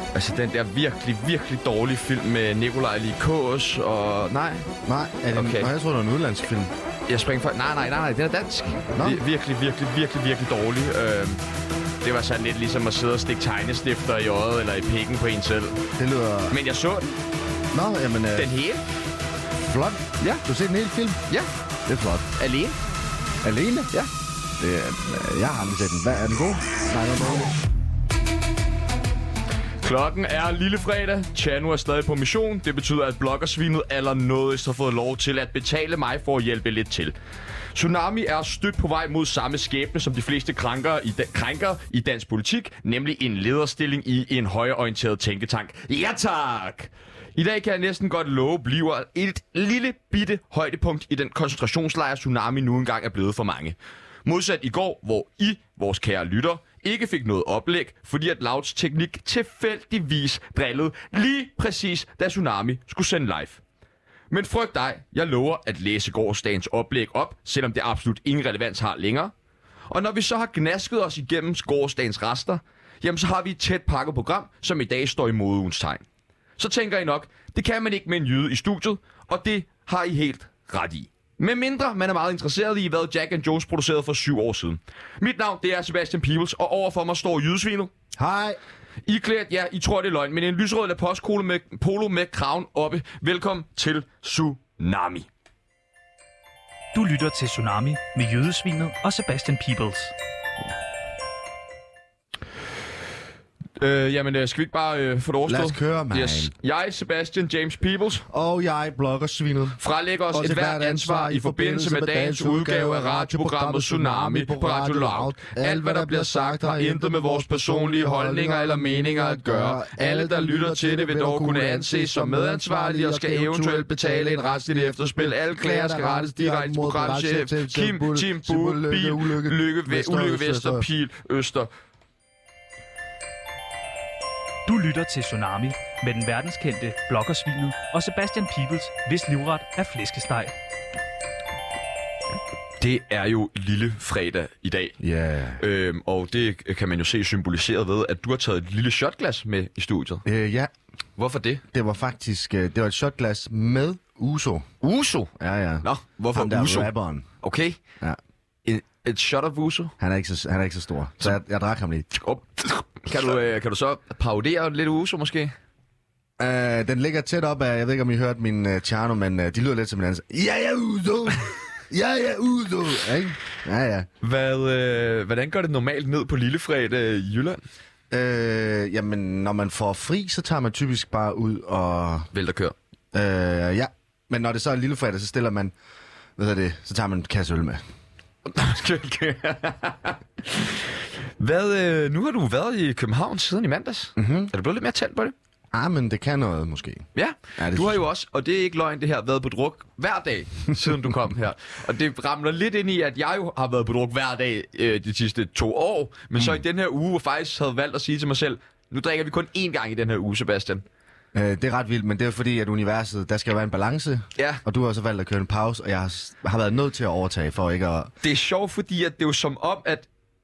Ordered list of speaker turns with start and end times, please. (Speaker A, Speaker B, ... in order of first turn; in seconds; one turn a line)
Speaker A: 0.1-4.7
Speaker B: 4.8-6.7
Speaker A: 5.3-5.7
Speaker A: 7.1-11.4
Speaker B: 8.9-9.2
Speaker A: 12.0-15.8
Speaker B: 16.0-16.6
Speaker A: 16.5-17.2
Speaker B: 17.7-18.5
Speaker A: 18.3-18.8
Speaker B: 19.6-21.2
Speaker B: 21.9-22.3
Speaker A: 22.4-22.8
Speaker B: 23.4-23.9
Speaker B: 24.6-27.5
Speaker A: 29.8-37.1
Speaker A: 37.7-63.6
Speaker A: 64.3-69.3
Speaker A: 69.9-76.0
Speaker A: 76.6-87.9
Speaker B: 88.2-88.6
Speaker A: 89.0-95.3
Speaker C: 96.9-100.1
Speaker A: 103.8-108.2
Speaker B: 105.5-106.5
Speaker B: 108.3-109.8
Speaker A: 109.8-131.7
Speaker B: 110.3-130.9
Speaker C: 134.6-140.5
Speaker A: 142.8-145.0
Speaker B: 145.0-145.6
Speaker A: 145.6-150.2
Speaker B: 150.2-150.7
Speaker A: 151.2-151.6
Speaker B: 151.7-154.7
Speaker A: 154.8-155.3
Speaker B: 155.3-157.3
Speaker A: 155.8-157.8
Speaker A: 158.6-159.9
Speaker B: 160.0-162.1
Speaker A: 162.1-165.5
Speaker B: 166.4-174.1
Speaker A: 174.2-177.6
Speaker B: 178.1-182.3
Speaker A: 182.3-182.7
Speaker B: 183.1-185.7
Speaker B: 186.4-187.8
Speaker A: 188.4-195.3
Speaker B: 194.2-194.5
Speaker B: 195.7-198.0
Speaker A: 197.1-210.8
Speaker B: 211.3-218.1
Speaker A: 214.3-214.6
Speaker A: 218.2-220.1